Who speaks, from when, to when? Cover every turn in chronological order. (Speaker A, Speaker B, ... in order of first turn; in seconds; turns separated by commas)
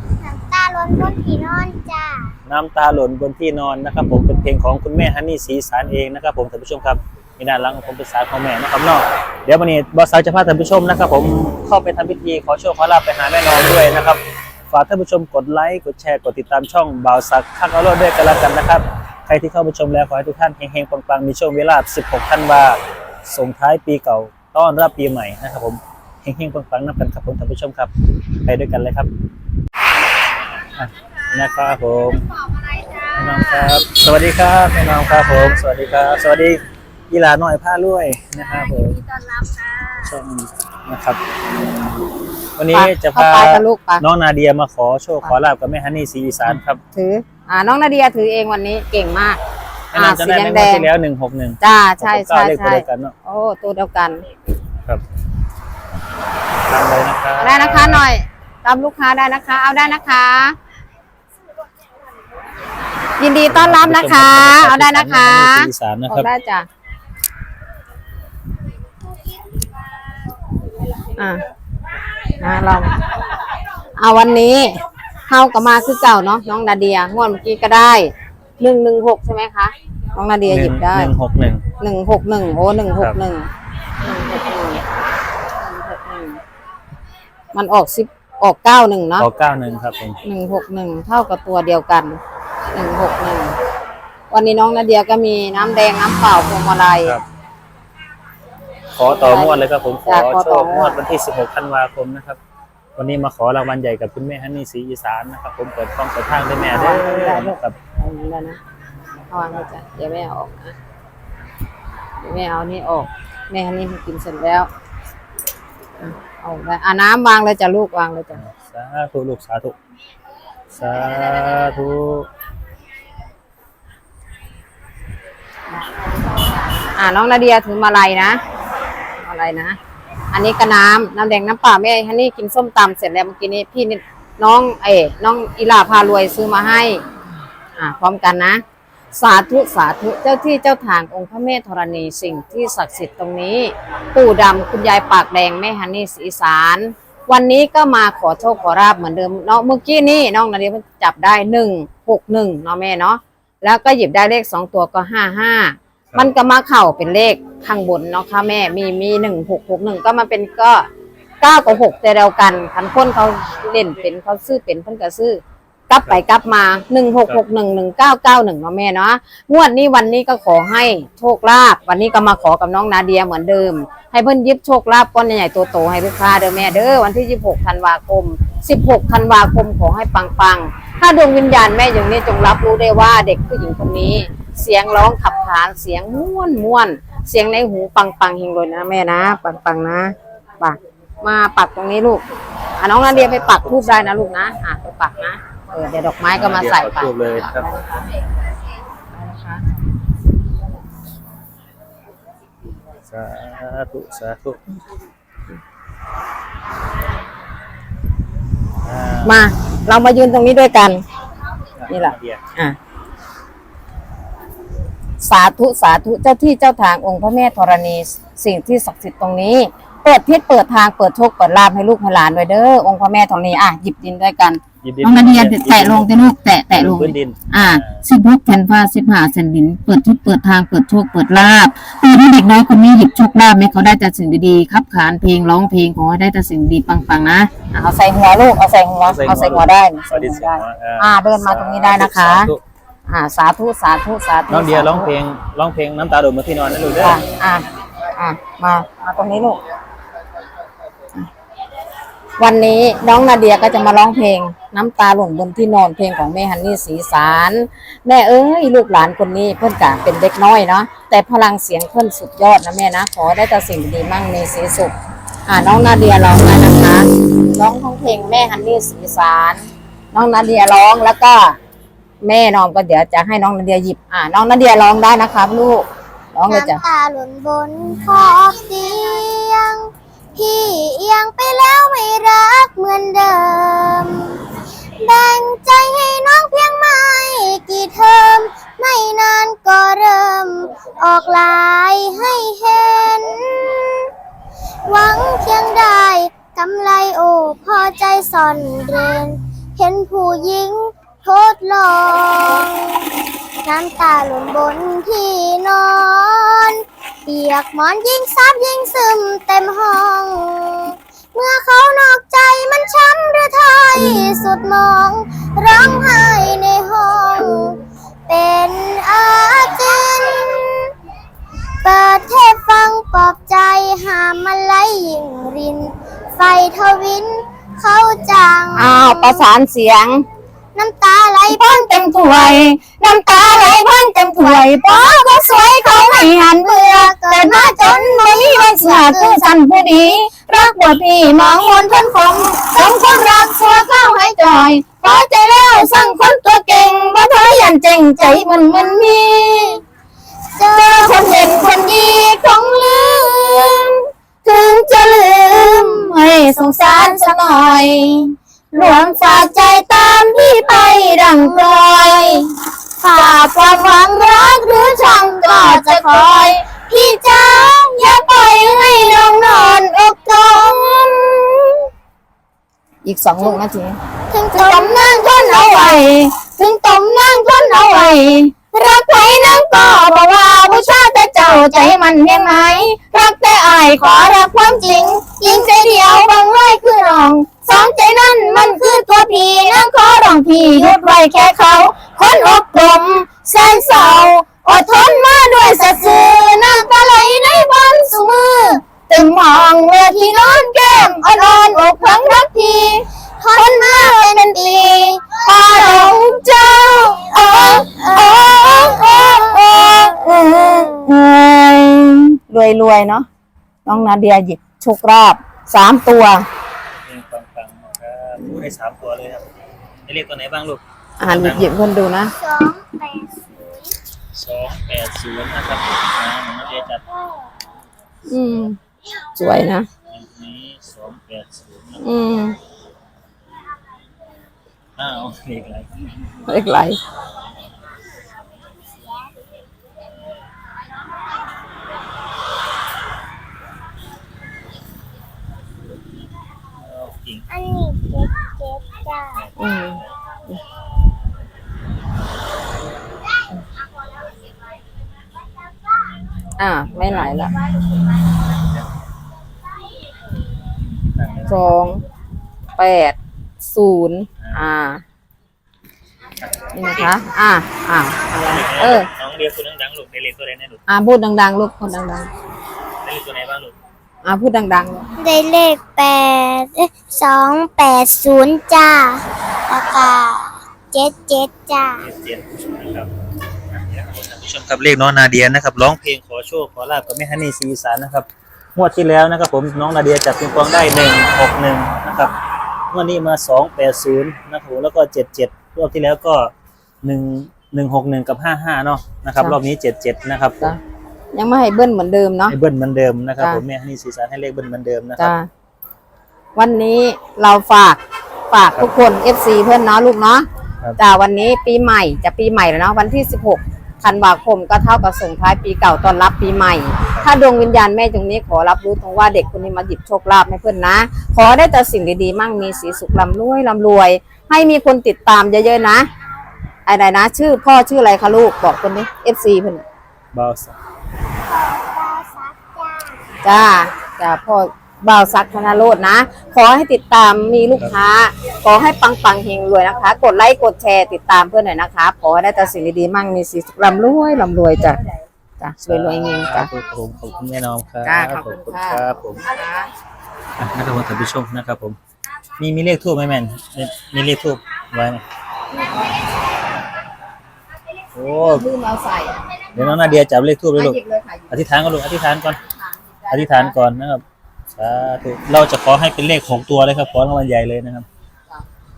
Speaker A: 0.2-2.4, Speaker B: 2.5-27.9, Speaker B: 28.4-29.1, Speaker B: 30.8-32.3, Speaker C: 32.7-33.7, Speaker B: 33.1-39.0, Speaker C: 38.9-40.0, Speaker B: 40.0-41.2, Speaker B: 42.6-46.8, Speaker C: 42.7-44.0, Speaker C: 46.5-49.4, Speaker B: 49.9-53.1, Speaker C: 49.9-50.9, Speaker C: 51.6-54.2, Speaker B: 56.7-58.1, Speaker C: 57.4-60.6, Speaker C: 63.2-66.7, Speaker B: 63.5-66.3, Speaker C: 71.2-71.5, Speaker C: 72.4-73.0, Speaker C: 74.0-81.1, Speaker B: 80.5-81.7, Speaker C: 81.8-84.8, Speaker C: 85.5-86.4, Speaker C: 87.5-89.3, Speaker B: 89.2-90.2, Speaker C: 90.2-92.2, Speaker C: 92.7-93.6, Speaker C: 94.3-97.2, Speaker B: 99.0-102.4, Speaker C: 99.1-101.0, Speaker B: 103.0-107.8, Speaker C: 106.7-108.6, Speaker C: 109.3-110.8, Speaker C: 112.2-114.7, Speaker C: 116.0-118.4, Speaker B: 118.4-119.8, Speaker B: 120.8-122.3, Speaker C: 125.7-128.4, Speaker C: 129.2-129.8, Speaker C: 130.3-137.0, Speaker C: 137.8-138.6, Speaker C: 139.1-160.9, Speaker C: 161.4-192.3, Speaker C: 192.8-198.1, Speaker B: 193.1-194.1, Speaker B: 196.3-197.7, Speaker C: 199.1-199.7, Speaker B: 203.1-204.6, Speaker B: 208.8-209.4, Speaker C: 209.2-211.0, Speaker B: 211.8-212.4, Speaker C: 211.9-212.8, Speaker C: 215.2-242.5, Speaker B: 224.8-228.0, Speaker B: 239.1-242.6, Speaker C: 243.1-245.1, Speaker B: 244.5-247.2, Speaker C: 247.0-249.6, Speaker C: 252.4-264.9, Speaker C: 265.5-271.6, Speaker C: 272.2-276.8, Speaker A: 276.5-284.4, Speaker A: 285.0-294.1, Speaker A: 294.9-303.1, Speaker A: 303.6-320.9, Speaker A: 321.8-329.4, Speaker C: 328.8-330.3, Speaker A: 330.8-331.8, Speaker C: 331.5-349.8, Speaker A: 335.8-339.4, Speaker A: 348.2-349.0, Speaker A: 350.6-351.9, Speaker C: 350.6-371.9, Speaker A: 363.0-366.5, Speaker C: 373.0-374.0, Speaker A: 374.3-376.0, Speaker C: 374.5-413.3, Speaker A: 395.4-396.9, Speaker A: 400.1-402.5, Speaker A: 403.4-406.4, Speaker A: 407.0-410.7, Speaker C: 413.9-416.5, Speaker B: 417.1-419.5, Speaker B: 420.1-421.7, Speaker C: 421.2-422.3, Speaker A: 422.4-423.9, Speaker B: 424.3-427.0, Speaker C: 428.3-428.8, Speaker C: 429.4-429.9, Speaker B: 430.1-432.0, Speaker C: 432.0-432.6, Speaker B: 435.0-435.9, Speaker C: 436.5-437.0, Speaker B: 446.8-447.5, Speaker A: 447.5-449.4, Speaker B: 449.4-450.0, Speaker C: 449.6-450.6, Speaker C: 456.6-457.5, Speaker B: 456.9-457.4, Speaker B: 461.1-461.5, Speaker C: 461.5-462.0, Speaker C: 462.8-465.0, Speaker B: 466.4-467.1, Speaker C: 466.7-469.1, Speaker B: 468.5-470.8, Speaker C: 470.9-472.3, Speaker B: 473.0-473.8, Speaker C: 474.2-475.1, Speaker A: 475.2-482.0, Speaker B: 482.0-483.1, Speaker B: 483.7-492.3, Speaker B: 492.9-496.5, Speaker B: 497.0-500.7, Speaker C: 501.3-502.6, Speaker B: 502.5-505.3, Speaker C: 505.2-505.5, Speaker C: 506.6-526.1, Speaker C: 526.9-529.8, Speaker B: 530.3-530.8, Speaker A: 531.5-533.2, Speaker C: 533.4-545.0, Speaker C: 545.6-546.7, Speaker B: 545.9-549.5, Speaker C: 548.0-549.9, Speaker B: 550.6-552.0, Speaker B: 552.6-555.2, Speaker C: 555.7-556.2, Speaker B: 558.2-558.6, Speaker C: 558.3-560.1, Speaker B: 559.7-561.0, Speaker C: 560.8-561.7, Speaker B: 561.5-562.6, Speaker C: 562.7-563.8, Speaker B: 563.3-564.2, Speaker B: 564.8-568.1